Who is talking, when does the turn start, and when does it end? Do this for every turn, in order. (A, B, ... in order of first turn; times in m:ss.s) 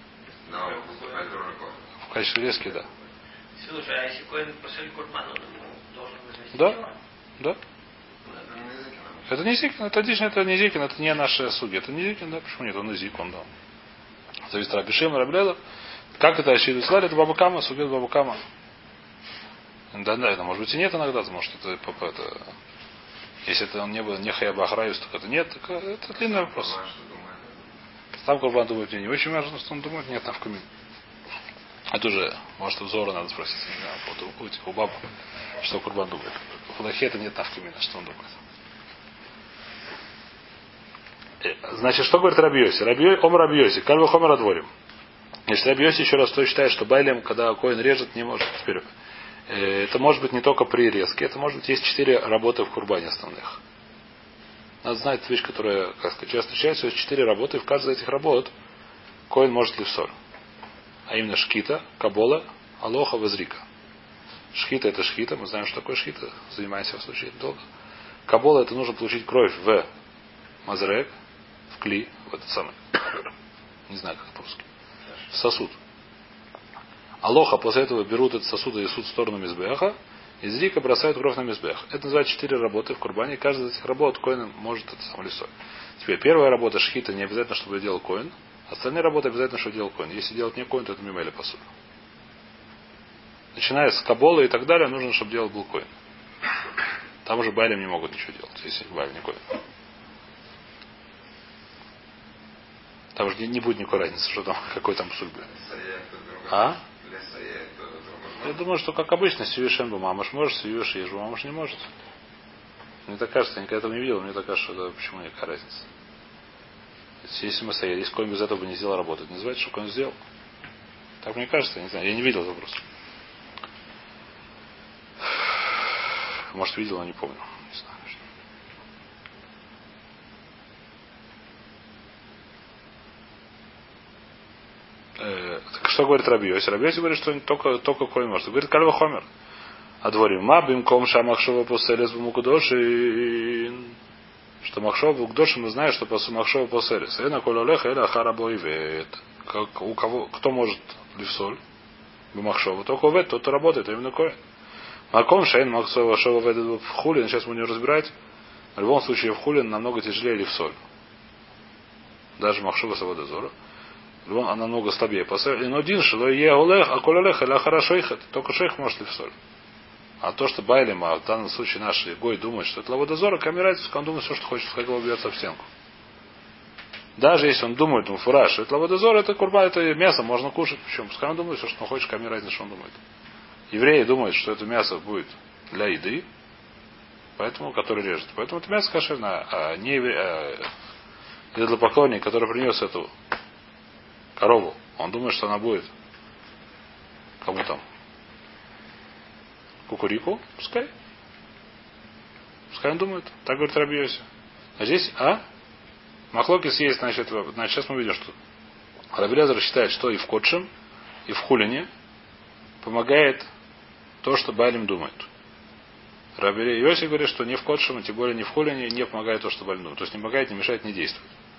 0:00.4-0:01.9 A
0:02.0-0:02.9 B
0:03.6-0:06.9 C
0:06.5-0:06.8 B
0:08.3-0:09.3 A
0:09.3-0:13.5 B
0:14.5-0:15.6 B
0:16.2-0:18.4 B
0:19.9-0:22.5 B
0:23.4-0:26.8 B
0:26.2-0:27.7 A
0:28.2-0:30.6 B
0:31.9-0:35.0 B
0:35.6-0:38.4 B
0:41.4-0:44.7 B
0:45.5-0:48.8 B
0:49.5-0:53.6 B
0:54.8-0:58.5 B
0:59.3-1:00.1 B
1:01.1-1:03.6 B
1:04.5-1:07.6 B
1:08.3-1:09.8 B
1:10.6-1:11.1 B
1:11.7-1:13.2 B
1:13.9-1:14.6 B
1:15.3-1:15.8 B
1:17.2-1:31.6 B
1:33.5-1:35.9 B
1:37.2-1:39.5 B
1:43.1-1:45.5 B
1:45.5-1:48.6 A
1:46.5-1:46.8 B
1:48.4-1:51.8 B
1:53.1-1:55.8 B
1:57.2-2:00.2 B
2:01.2-2:02.8 B
2:05.3-2:05.6 B
2:06.5-2:08.1 B
2:15.2-2:19.3 B
2:20.0-2:24.0 B
2:24.6-2:31.6 B
2:32.3-2:34.3 B
2:35.1-2:38.1 B
2:38.8-2:40.8 B
2:42.4-2:43.5 B
2:44.2-2:49.3 B
2:50.2-2:55.6 B
2:57.2-3:03.0 B
3:03.7-3:06.2 B
3:07.4-3:10.7 B
3:11.5-3:13.1 B
3:14.4-3:15.9 B
3:17.4-3:17.8 B
3:19.9-3:20.9 B
3:22.7-3:24.2 B
3:24.8-3:25.4 B
3:26.3-3:28.3 B
3:29.1-3:30.7 B
3:31.2-3:31.9 B
3:32.8-3:33.5 B
3:34.2-3:35.3 B
3:36.4-3:41.3 B